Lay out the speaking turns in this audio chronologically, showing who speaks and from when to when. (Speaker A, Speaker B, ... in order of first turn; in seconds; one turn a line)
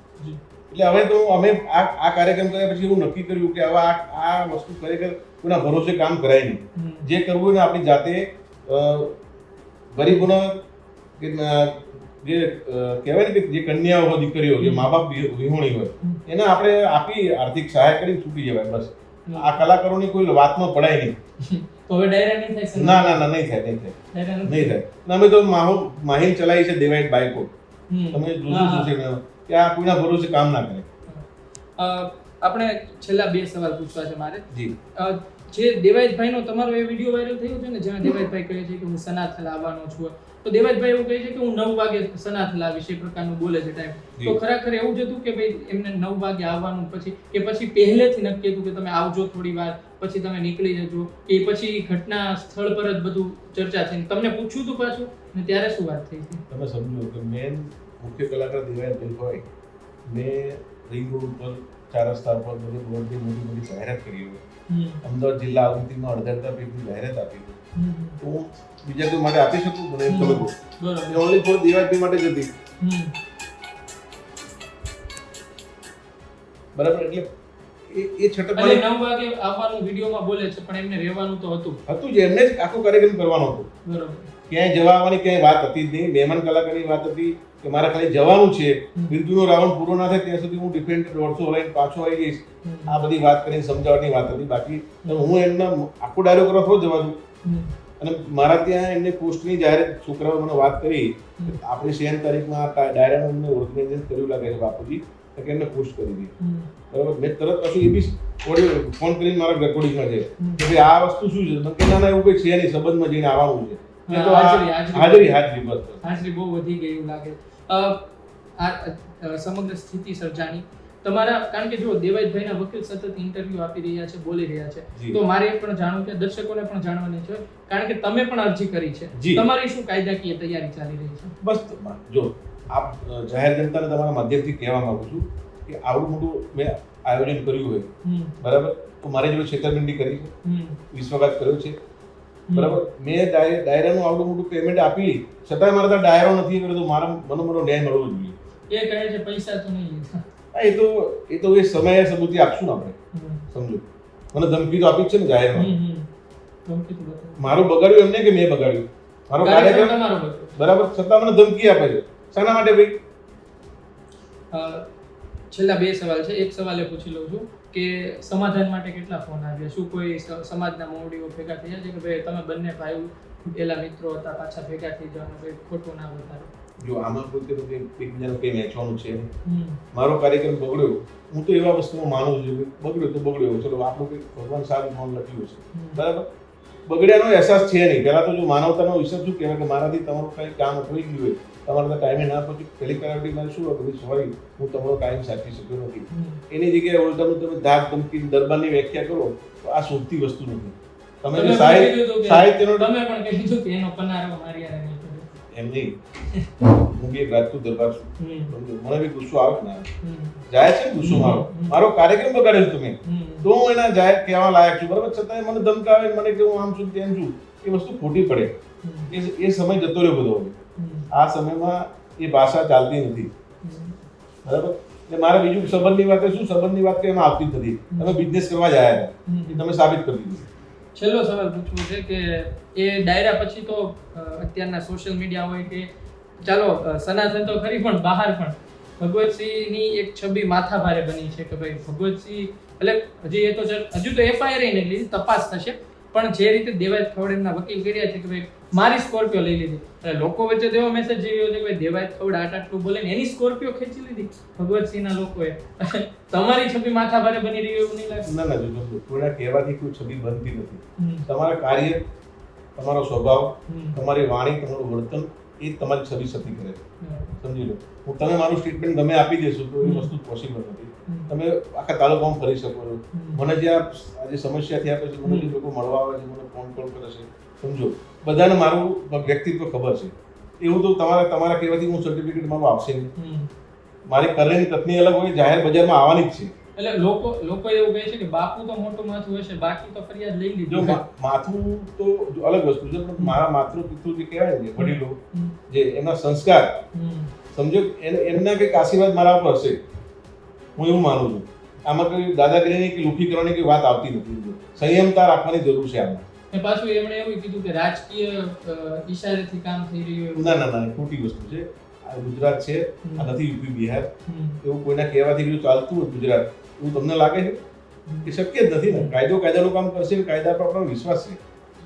Speaker A: 0.7-9.2
Speaker B: 6.7-7.1
Speaker A: 9.9-10.6
Speaker A: 11.2-21.1
Speaker B: 14.6-14.9
Speaker B: 19.2-19.6
Speaker B: 21.4-23.2
Speaker A: 22.7-27.5
Speaker B: 24.1-24.8
Speaker B: 27.9-28.9
Speaker A: 28.1-30.9
Speaker B: 31.8-56.4
Speaker A: 56.5-59.5
Speaker A: 60.1-64.4
Speaker B: 64.7-65.0
Speaker A: 65.0-67.6
Speaker B: 67.7-68.2
Speaker A: 68.2-70.5
Speaker B: 70.1-71.2
Speaker A: 71.0-72.5
Speaker B: 72.8-73.1
Speaker A: 76.7-77.3
Speaker A: 77.9-78.8
Speaker B: 78.5-81.8
Speaker A: 81.9-83.7
Speaker B: 83.8-84.3
Speaker A: 84.5-97.2
Speaker B: 92.6-93.0
Speaker B: 95.0-95.3
Speaker B: 97.4-97.7
Speaker A: 98.0-106.3
Speaker B: 106.4-106.7
Speaker A: 106.9-116.0
Speaker B: 110.4-110.7
Speaker B: 114.1-115.4
Speaker B: 116.0-131.4
Speaker A: 129.1-129.4
Speaker A: 131.4-137.9
Speaker B: 138.0-138.3
Speaker A: 138.4-140.3
Speaker B: 140.4-140.8
Speaker A: 140.9-141.8
Speaker B: 142.5-142.8
Speaker A: 142.5-148.3
Speaker B: 148.7-150.2
Speaker A: 150.5-153.0
Speaker B: 153.1-153.4
Speaker A: 153.5-155.7
Speaker B: 155.5-156.1
Speaker B: 156.7-157.6
Speaker A: 157.4-160.0
Speaker B: 159.4-160.6
Speaker A: 160.6-163.0
Speaker B: 164.5-164.9
Speaker B: 165.5-176.5
Speaker A: 176.8-179.3
Speaker B: 179.4-179.8
Speaker A: 179.9-186.3
Speaker B: 185.7-186.0
Speaker A: 186.9-202.9
Speaker B: 196.1-196.4
Speaker B: 201.3-205.3
Speaker A: 205.5-206.0
Speaker A: 206.8-209.9
Speaker B: 208.2-208.5
Speaker B: 210.0-210.4
Speaker A: 210.5-218.5
Speaker B: 211.0-211.8
Speaker B: 213.0-213.5
Speaker B: 218.8-219.1
Speaker A: 219.1-220.6
Speaker B: 220.8-221.1
Speaker A: 221.1-223.3
Speaker B: 223.6-224.0
Speaker A: 224.4-230.4
Speaker B: 227.9-228.3
Speaker B: 229.2-229.6
Speaker B: 230.9-235.9
Speaker B: 236.4-258.3
Speaker A: 258.2-262.0
Speaker B: 261.0-261.3
Speaker A: 262.8-266.8
Speaker B: 263.7-264.0
Speaker B: 267.0-267.4
Speaker A: 267.4-283.1
Speaker B: 269.8-270.1
Speaker B: 271.1-271.3
Speaker B: 273.1-273.4
Speaker B: 275.2-275.6
Speaker B: 283.1-283.5
Speaker A: 284.1-286.5
Speaker B: 286.8-291.0
Speaker A: 290.7-295.2
Speaker B: 294.8-295.5
Speaker A: 295.7-296.8
Speaker B: 296.9-297.3
Speaker A: 297.5-299.8
Speaker A: 300.8-306.2
Speaker B: 306.5-310.7
Speaker A: 310.3-317.6
Speaker B: 313.0-313.3
Speaker B: 314.2-314.6
Speaker A: 318.2-321.4
Speaker B: 318.9-319.1